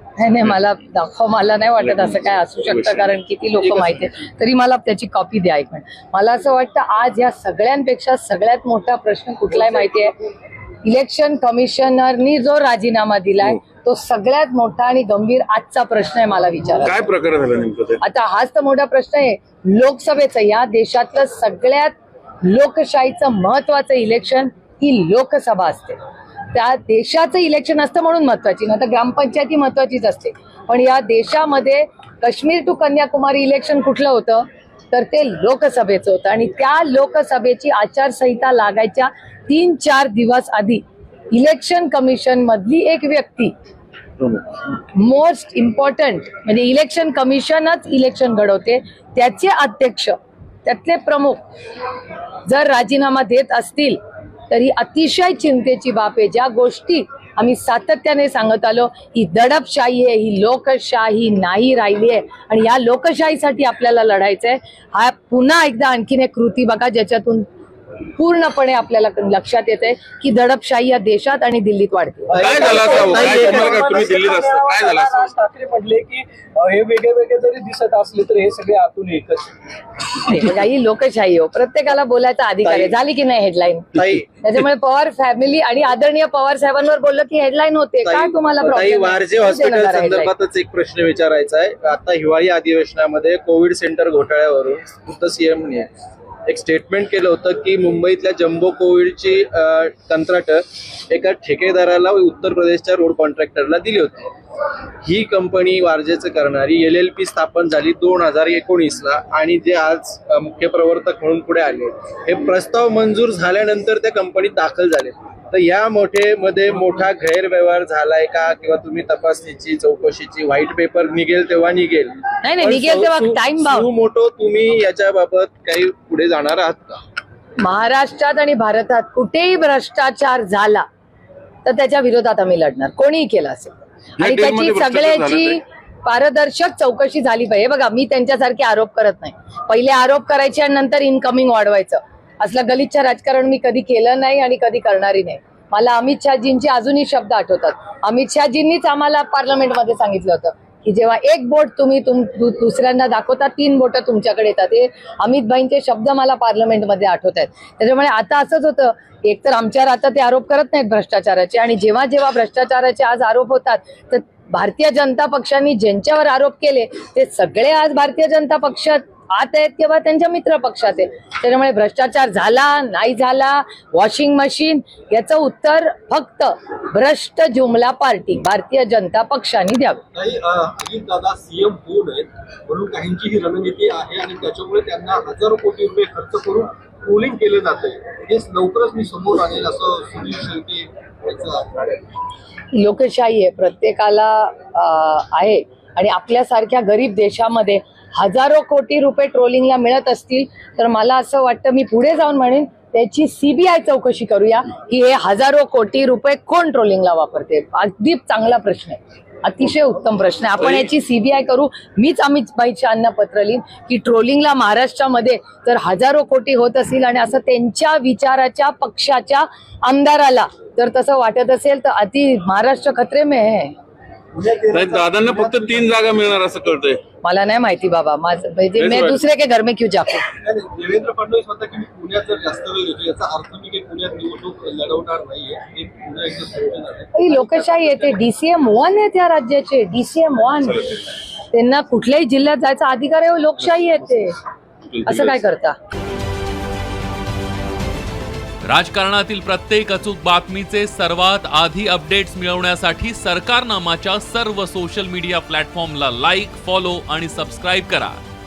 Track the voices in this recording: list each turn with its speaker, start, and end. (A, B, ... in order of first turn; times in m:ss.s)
0:00.2-0:10.1 A
0:02.7-0:03.1 B
0:10.8-0:17.0 A
0:16.8-0:18.0 B
0:18.0-0:26.0 A
0:26.5-0:43.5 A
0:44.9-0:51.4 A
0:52.4-0:54.0 A
0:54.5-1:07.4 A
1:08.2-1:13.7 A
1:12.3-1:19.5 C
1:12.4-1:15.3 B
1:13.1-1:13.5 D
1:20.1-1:30.3 A
1:22.6-1:22.9 D
1:24.0-1:24.3 D
1:28.0-1:35.9 D
1:36.5-1:44.3 D
1:45.0-2:07.0 D
2:02.4-2:03.9 A
2:07.6-2:10.8 A
2:11.6-3:00.0 A
2:14.2-2:15.6 B
3:00.1-3:12.0 E
3:12.7-3:43.7 A
3:44.3-3:45.9 E
3:44.7-3:47.0 B
3:47.2-3:50.2 A
3:48.8-3:49.2 B
3:50.4-3:58.2 E
3:57.1-4:00.9 A
4:01.5-4:04.4 A
4:04.9-4:05.4 B
4:05.0-4:05.8 A
4:08.6-4:18.2 F